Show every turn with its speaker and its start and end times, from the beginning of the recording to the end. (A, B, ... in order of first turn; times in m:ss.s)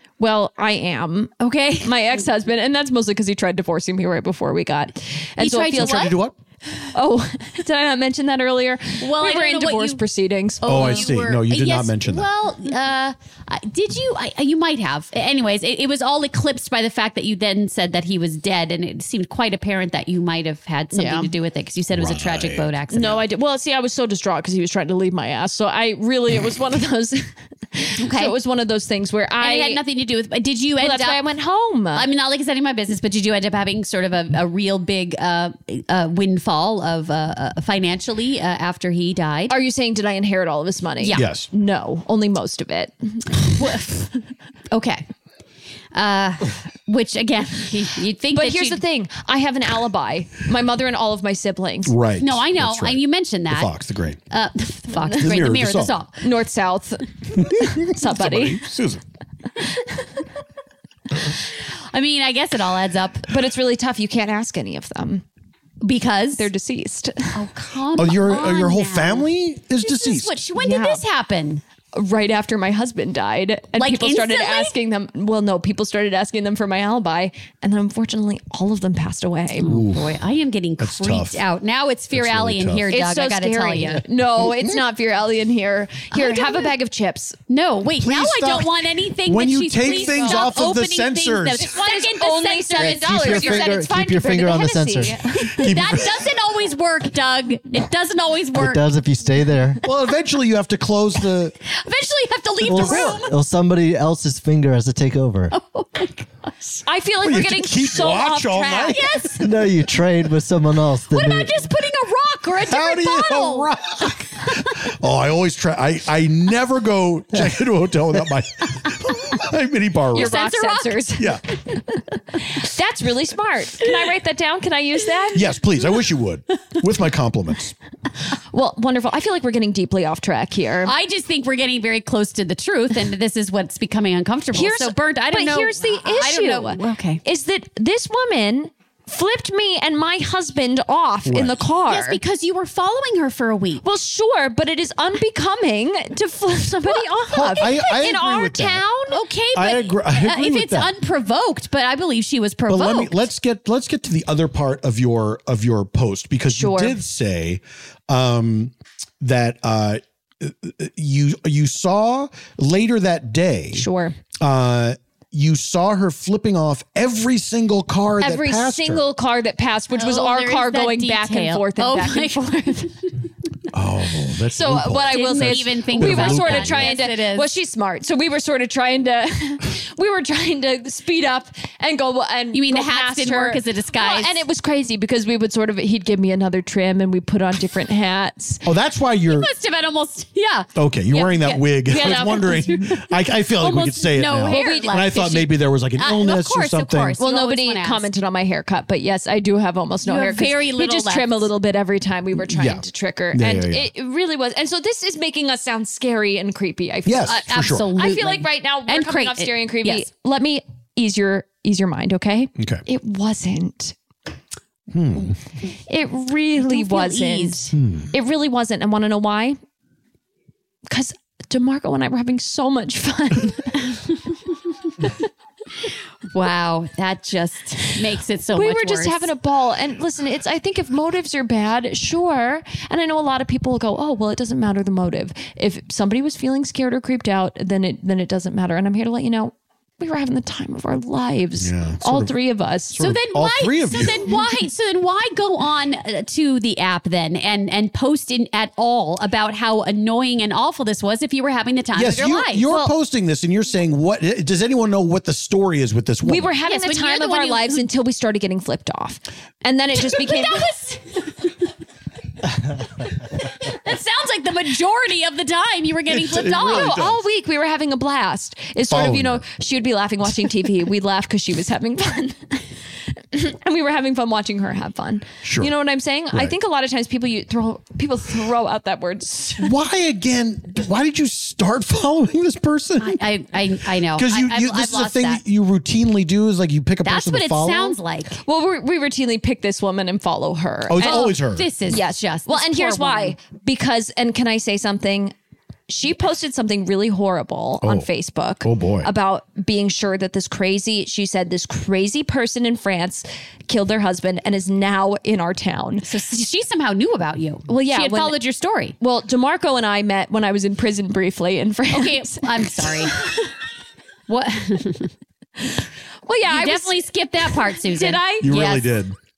0:00.2-0:06.2 A
0:01.5-0:01.9 B
0:05.4-0:06.2 B
0:05.7-0:06.4 C
0:06.9-0:11.2 A
0:09.0-0:10.0 B
0:10.6-0:23.2 B
0:10.6-0:12.3 C
0:20.9-0:21.3 A
0:21.9-0:22.7 C
0:22.9-0:29.8 A
0:28.0-0:28.4 B
0:29.4-0:31.2 B
0:30.8-0:32.1 A
0:31.9-0:39.6 B
0:39.5-0:44.0 A
0:41.0-0:41.3 B
0:41.2-0:41.5 C
0:43.6-0:44.1 B
0:44.7-0:45.0 B
0:45.9-0:48.8 B
0:48.3-0:52.0 A
0:51.9-0:54.2 C
0:52.2-0:53.7 B
0:54.3-0:56.2 B
0:55.1-0:56.0 C
0:56.2-0:58.6 A
0:57.4-0:59.0 C
0:59.8-1:00.0 A
1:01.9-1:03.3 B
1:03.3-1:05.2 A
1:05.8-1:06.5 B
1:06.4-1:07.4 A
1:07.3-1:09.3 B
1:08.0-1:10.4 C
1:09.8-1:11.6 B
1:10.6-1:11.0 A
1:11.9-1:19.7 A
1:13.8-1:14.8 B
1:19.6-1:24.0 B
1:19.7-1:20.1 C
1:20.8-1:21.4 C
1:22.1-1:22.9 C
1:22.9-1:27.4 A
1:26.1-1:26.7 B
1:27.5-1:33.8 B
1:28.0-1:31.8 C
1:29.9-1:30.6 A
1:31.6-1:35.7 A
1:32.8-1:35.2 D
1:35.5-1:36.3 C
1:35.6-1:38.8 B
1:38.5-1:39.8 D
1:39.8-1:41.6 C
1:41.7-1:43.4 B
1:42.6-1:45.5 D
1:42.7-1:43.2 C
1:45.5-1:46.8 B
1:46.8-1:49.1 A
1:47.2-1:49.0 C
1:48.9-1:49.4 B
1:49.4-1:51.6 D
1:51.1-1:53.7 B
1:52.7-2:00.4 C
2:00.1-2:01.4 A
2:00.1-2:01.0 B
2:01.2-2:01.4 C
2:02.4-2:05.5 A
2:05.3-2:07.7 C
2:08.5-2:10.9 A
2:10.8-2:17.2 B
2:14.5-2:22.2 A
2:21.3-2:21.6 C
2:21.9-2:23.8 B
2:23.8-2:29.2 A
2:27.3-2:28.8 C
2:29.1-2:33.2 B
2:29.5-2:30.9 C
2:32.7-2:43.9 C
2:36.5-2:37.0 A
2:43.7-2:44.2 A
2:44.4-2:49.0 C
2:48.2-2:52.9 A
2:49.9-2:52.9 B
2:53.7-2:57.0 C
2:54.5-3:08.6 A
2:55.1-2:57.5 B
3:02.5-3:04.4 B
3:08.6-3:09.5 C
3:09.3-3:12.9 B
3:10.8-3:17.2 C
3:11.9-3:13.0 A
3:13.6-3:15.1 A
3:14.0-3:18.1 B
3:17.2-3:34.0 A
3:20.0-3:21.5 B
3:22.5-3:23.9 C
3:27.0-3:27.9 C
3:27.3-3:30.1 B
3:32.6-3:32.8 C
3:34.9-3:35.4 C
3:35.9-3:39.6 A
3:36.7-3:37.6 B
3:37.7-3:38.1 C
3:40.9-3:44.0 A
3:46.3-3:49.3 B
3:48.5-4:03.0 A
4:01.6-4:02.3 C
4:02.9-4:04.4 C
4:03.0-4:12.7 B
4:12.0-4:16.5 C
4:12.7-4:12.9 A
4:16.2-4:20.7 A
4:16.6-4:17.8 B
4:20.0-4:21.5 B
4:23.4-4:27.0 B
4:26.1-4:27.2 C
4:26.5-4:32.6 A
4:28.9-4:29.4 C
4:33.3-4:39.7 A
4:35.4-4:35.7 C
4:39.6-4:43.2 C
4:43.0-4:45.4 B
4:44.1-4:48.0 C
4:47.0-4:48.4 B
4:48.4-4:55.4 A
4:50.9-4:51.7 C
4:51.0-4:53.4 B
4:55.9-5:06.1 A
4:58.6-4:59.1 C
5:06.0-5:09.0 B
5:07.7-5:08.5 A
5:09.0-5:13.5 A
5:11.9-5:13.2 B
5:14.3-5:15.1 B
5:16.3-5:18.6 A
5:16.5-5:18.9 B
5:18.4-5:19.2 C